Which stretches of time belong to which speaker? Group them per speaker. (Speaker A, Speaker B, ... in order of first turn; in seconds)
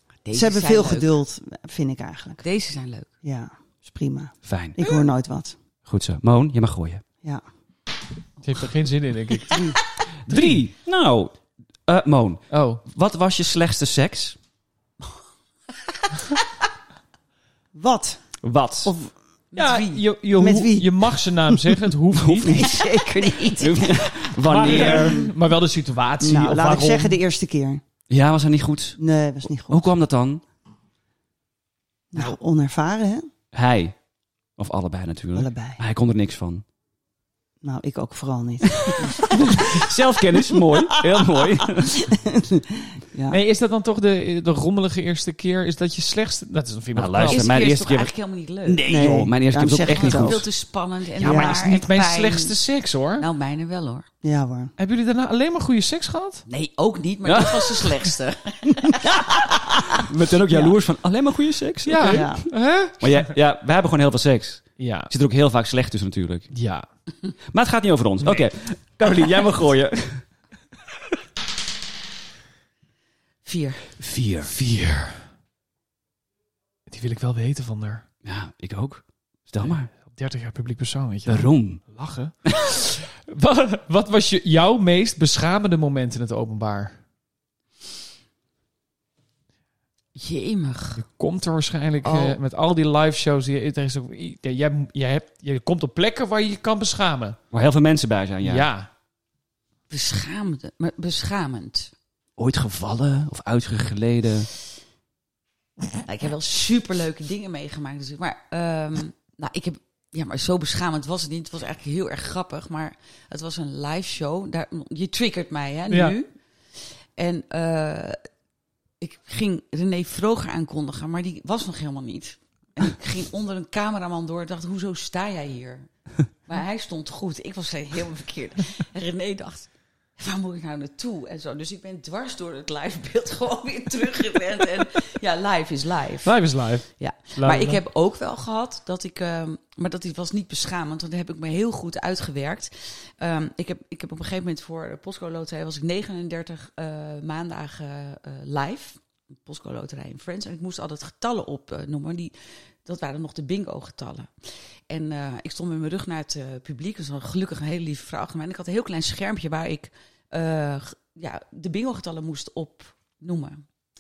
Speaker A: 0.3-1.2, 2.4-3.1, 19.5-20.0, 22.6-24.0, 47.3-48.8, 49.8-52.6, 53.2-54.1, 56.5-59.2, 73.4-73.8, 90.2-91.0, 92.0-92.4, 99.9-101.9, 106.0-118.2, 119.0-163.6
Speaker B: 0.3-2.4, 3.2-5.6, 9.5-9.8, 17.7-18.2, 18.8-19.1, 20.4-21.6, 22.4-23.8, 24.7-25.3, 26.2-27.8, 29.0-29.9, 32.1-33.3, 35.4-35.8, 37.6-39.8, 40.6-43.4, 48.8-50.5, 51.2-51.6, 54.2-54.7, 59.4-59.7, 62.0-62.5
Speaker C: 4.5-4.8, 5.8-7.0, 10.3-14.4, 18.4-18.9, 22.2-22.6, 23.6-25.2, 28.1-29.0, 29.7-30.4, 33.5-34.0, 34.6-36.6, 39.3-42.1, 47.0-48.1, 48.6-50.4, 57.2-58.0, 59.3-62.5, 63.0-66.5, 67.5-70.2, 74.0-74.5, 78.2-79.9, 81.3-81.8, 97.5-98.7, 102.4-104.5
Speaker D: 8.4-9.7, 10.3-10.6, 12.5-12.8, 19.6-22.7, 24.4-27.2, 43.3-47.5, 51.2-53.3, 54.8-56.5, 61.9-63.3, 64.8-65.1, 66.5-66.9, 74.5-75.2, 76.9-78.0, 79.6-87.0, 91.0-97.4, 98.4-98.9, 136.2-137.8